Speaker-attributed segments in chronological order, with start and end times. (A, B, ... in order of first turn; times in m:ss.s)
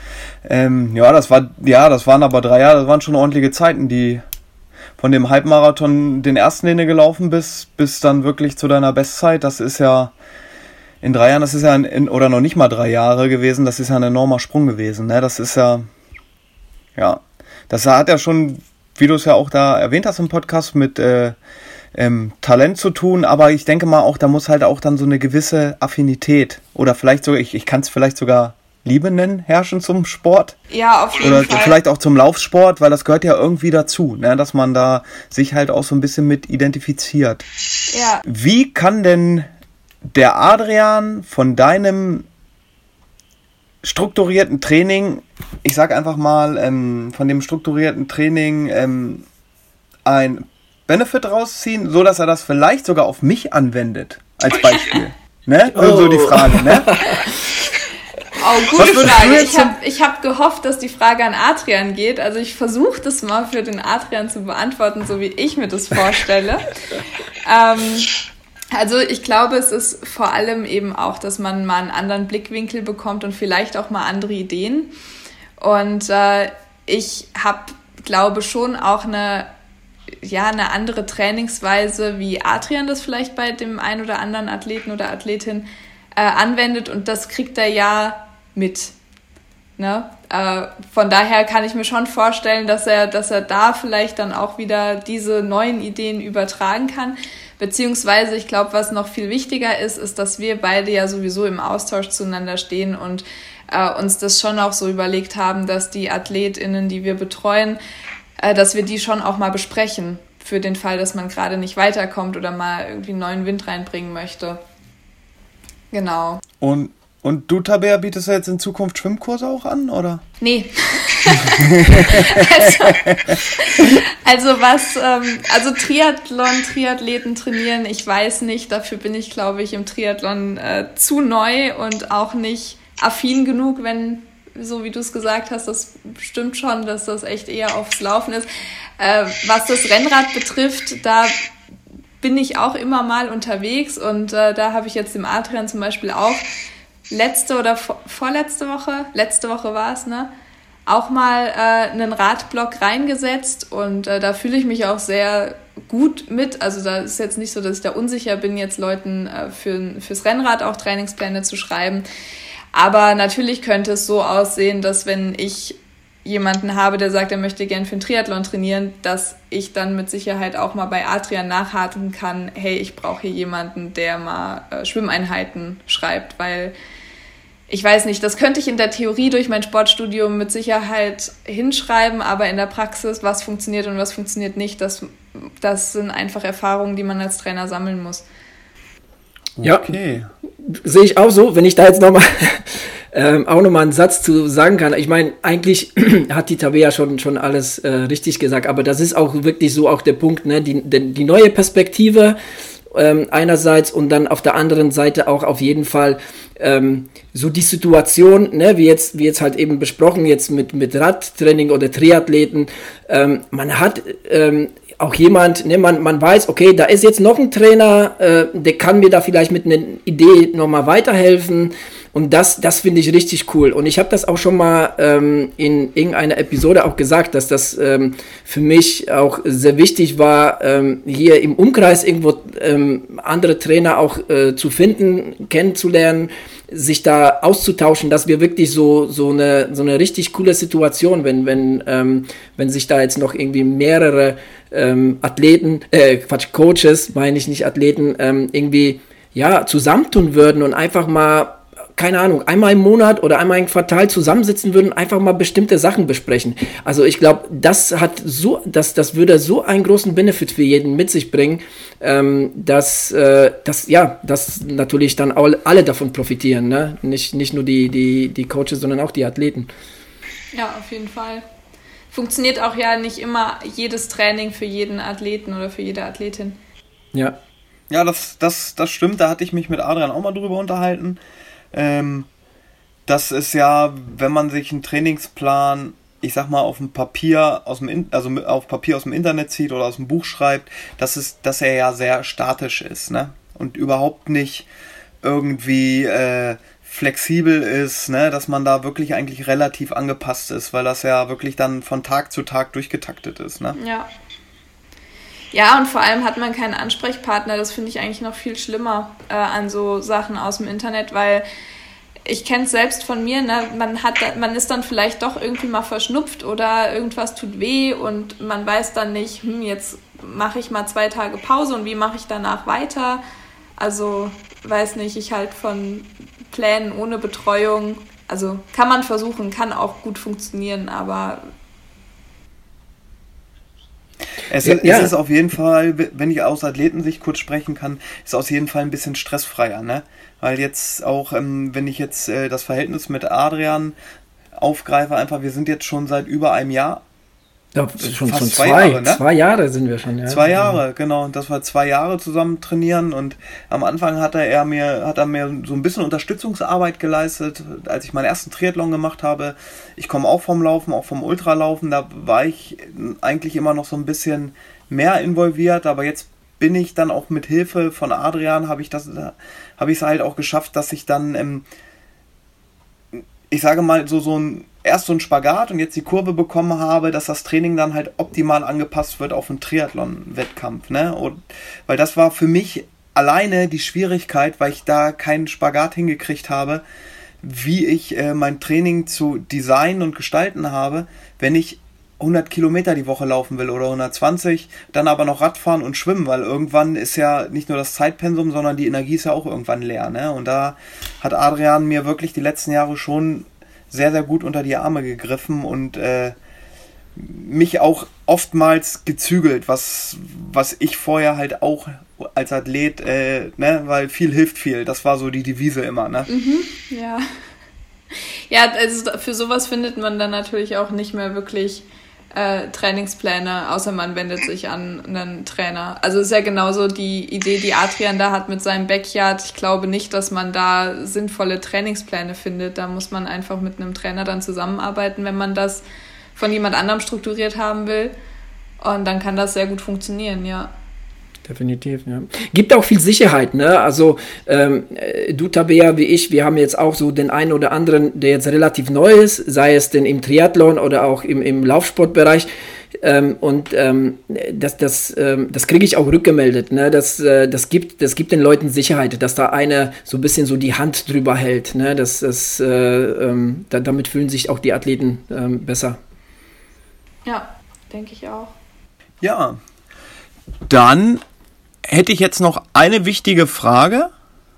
0:00.4-0:04.2 A
0:05.0-0:10.1 A
0:11.0-0:15.9 A
0:17.0-0:21.4 A
0:21.9-0:30.6 A
0:30.7-0:31.8 B
0:31.2-0:37.4 A
0:37.9-0:38.2 B
0:38.2-0:39.5 A
0:40.1-0:42.2 A
0:43.8-0:49.2 A
0:50.0-0:57.0 A
0:55.7-0:57.3 C
0:58.4-1:06.7 B
0:58.7-0:59.7 A
1:07.4-1:08.1 B
1:08.7-1:14.9 B
1:15.6-1:19.5 B
1:20.2-1:28.9 B
1:29.8-1:47.8 B
1:48.4-1:54.6 B
1:55.9-1:56.4 B
1:56.6-2:00.2 A
2:00.4-2:18.5 B
2:01.6-2:03.0 A
2:19.0-2:21.4 B
2:22.2-2:26.5 B
2:27.1-2:30.3 B
2:30.9-2:42.0 B
2:42.7-2:56.7 B
2:57.7-3:08.2 B
3:09.5-3:10.3 A
3:09.6-3:10.0 C
3:10.6-3:22.4 C
3:22.9-4:29.7 C
4:30.5-4:31.4 B
4:32.1-4:36.6 B
4:37.9-4:41.2 A
4:41.7-4:42.3 A
4:43.0-4:54.7 A
4:55.2-5:03.8 A
5:03.8-5:04.1 B
5:05.5-5:11.4 B
5:12.2-5:23.2 B
5:23.8-5:31.5 B
5:34.4-5:44.0 A
5:34.6-5:35.1 C
5:44.5-5:47.0 A
5:47.7-5:50.8 C
5:48.2-5:49.2 A
5:50.3-6:11.6 A
6:13.2-6:26.8 A
6:27.4-6:46.4 A
6:47.2-6:56.3 A
6:56.3-6:57.2 B
6:58.1-7:15.8 B
7:16.4-7:18.1 B
7:18.8-7:20.7 B
7:21.4-7:32.5 C
7:33.0-7:46.0 C
7:47.2-7:48.5 B
7:49.2-7:49.6 A
7:50.7-7:51.2 A
7:51.9-7:54.1 A